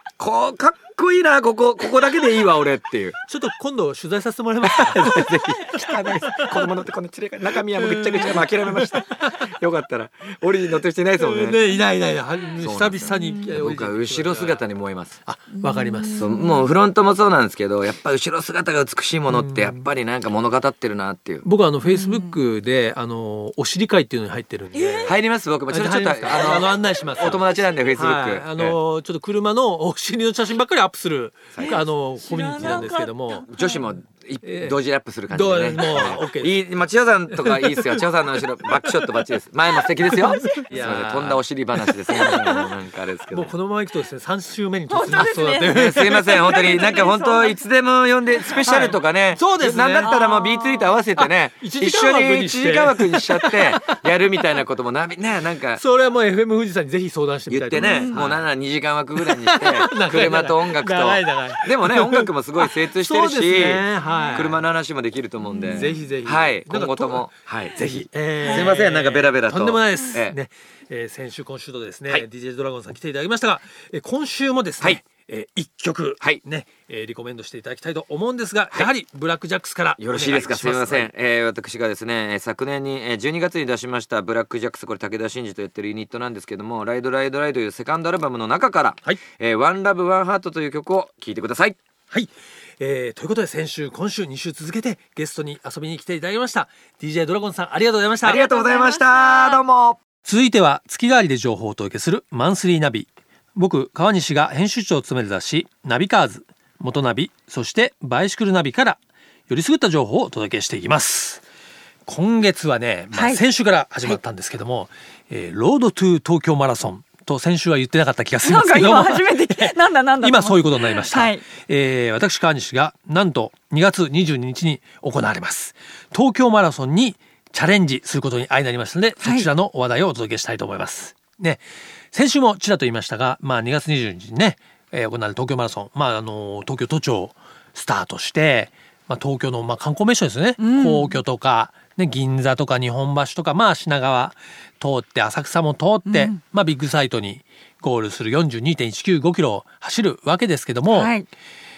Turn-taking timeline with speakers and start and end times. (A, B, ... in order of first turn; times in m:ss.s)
0:00.2-0:03.2 A
0:03.3-0:05.4 B
0:04.6-0:11.6 A
0:06.2-0:06.7 B
0:07.7-0:09.0 B
0:11.2-0:14.6 B
0:12.6-0:15.2 A
0:13.1-0:13.5 C
0:15.2-0:16.3 B
0:15.5-0:16.7 C
0:16.1-0:21.4 A
0:19.3-0:19.9 B
0:21.4-0:25.2 B
0:21.8-0:22.4 C
0:24.7-0:25.2 C
0:25.1-0:28.8 A
0:25.7-0:33.5 B
0:31.5-0:31.8 A
0:31.6-0:33.9 C
0:33.5-0:43.5 A
0:34.4-0:34.8 B
0:35.3-0:36.5 B
0:37.3-0:38.0 B
0:40.1-0:42.7 B
0:40.4-0:40.6 C
0:43.3-0:47.0 B
0:44.9-0:47.6 C
0:45.6-0:55.8 A
0:48.5-0:50.2 B
0:50.0-0:51.0 C
0:51.2-0:54.0 B
0:55.8-0:58.4 B
0:57.5-1:10.4 A
0:57.8-0:58.2 C
0:59.2-1:04.6 B
1:04.0-1:04.4 C
1:05.4-1:06.0 C
1:05.6-1:21.1 B
1:08.4-1:08.7 C
1:20.0-1:31.8 A
1:32.1-1:38.4 B
1:38.2-1:40.0 A
1:38.2-1:39.6 C
1:40.2-1:49.0 B
1:49.5-1:51.4 B
1:52.1-2:11.6 B
1:53.1-1:53.4 C
1:58.4-2:01.4 C
2:09.2-2:09.5 C
2:12.1-2:31.2 B
2:20.6-2:21.2 C
2:26.1-2:26.4 C
2:30.9-2:31.3 C